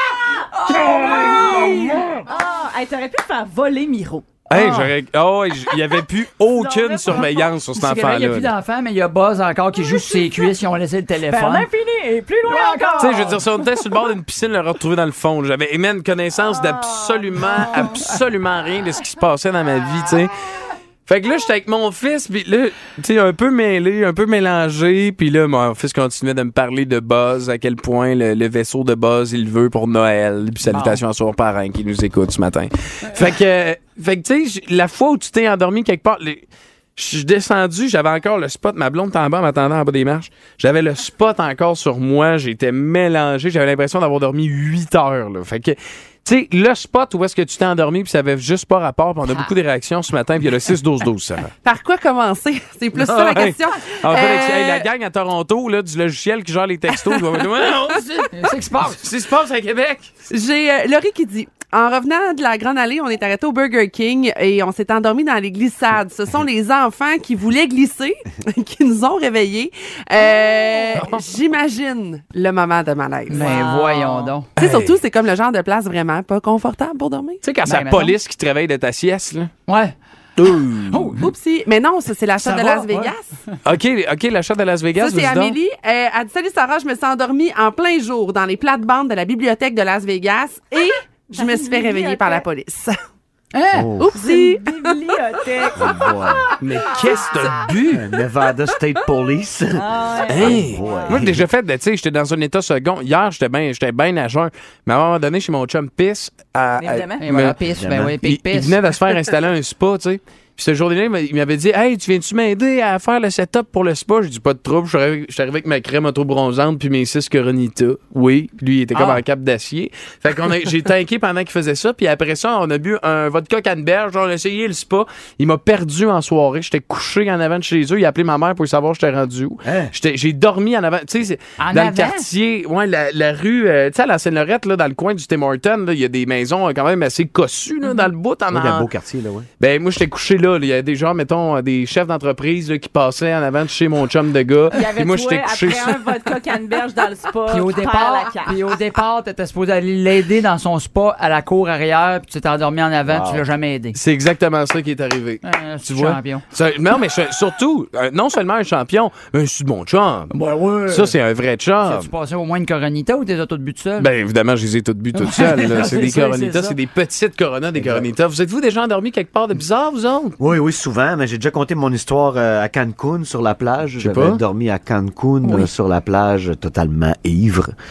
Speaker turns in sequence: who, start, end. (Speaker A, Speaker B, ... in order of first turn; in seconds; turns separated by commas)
Speaker A: 0.5-2.2, Speaker B: 0.6-4.2, Speaker C: 4.5-8.5, Speaker A: 4.5-4.9, Speaker B: 6.5-7.5, Speaker A: 7.7-11.7, Speaker B: 11.2-13.4, Speaker A: 12.4-13.4, Speaker C: 13.0-20.4, Speaker B: 17.4-17.9, Speaker C: 21.1-36.4, Speaker A: 30.6-31.0, Speaker C: 37.0-51.5, Speaker D: 51.6-54.9, Speaker C: 52.9-60.1, Speaker D: 57.0-58.0, Speaker A: 58.3-59.0, Speaker D: 60.3-73.5, Speaker B: 70.2-71.0, Speaker C: 70.9-71.2, Speaker A: 73.3-74.5, Speaker B: 73.3-74.3, Speaker C: 74.6-75.0, Speaker D: 74.6-77.4, Speaker C: 77.4-79.5, Speaker A: 77.6-78.2, Speaker A: 79.7-79.9, Speaker C: 80.4-81.0, Speaker A: 80.9-81.2, Speaker D: 81.2-83.3, Speaker A: 82.4-83.5, Speaker C: 83.6-85.6, Speaker D: 85.0-93.0, Speaker B: 91.3-92.4, Speaker A: 93.5-93.9, Speaker E: 93.7-94.1, Speaker D: 94.0-95.7, Speaker B: 94.1-96.0, Speaker E: 95.7-96.5, Speaker C: 96.6-98.1, Speaker E: 97.9-101.4, Speaker B: 99.8-101.2, Speaker C: 100.3-107.6, Speaker B: 106.8-107.2, Speaker A: 107.2-108.8, Speaker E: 107.8-108.1, Speaker C: 108.2-138.9, Speaker A: 118.9-119.2, Speaker E: 129.6-129.9, Speaker A: 131.6-132.2, Speaker E: 138.5-139.5, Speaker C: 139.6-146.2, Speaker B: 144.7-148.6, Speaker A: 147.5-154.0, Speaker C: 153.1-153.4, Speaker C: 153.9-160.3, Speaker A: 155.4-156.4, Speaker A: 160.3-161.1, Speaker C: 160.9-162.1, Speaker A: 161.8-164.1, Speaker C: 164.0-170.4, Speaker A: 165.2-166.8, Speaker E: 167.7-168.1, Speaker E: 170.4-177.7, Speaker C: 174.0-174.4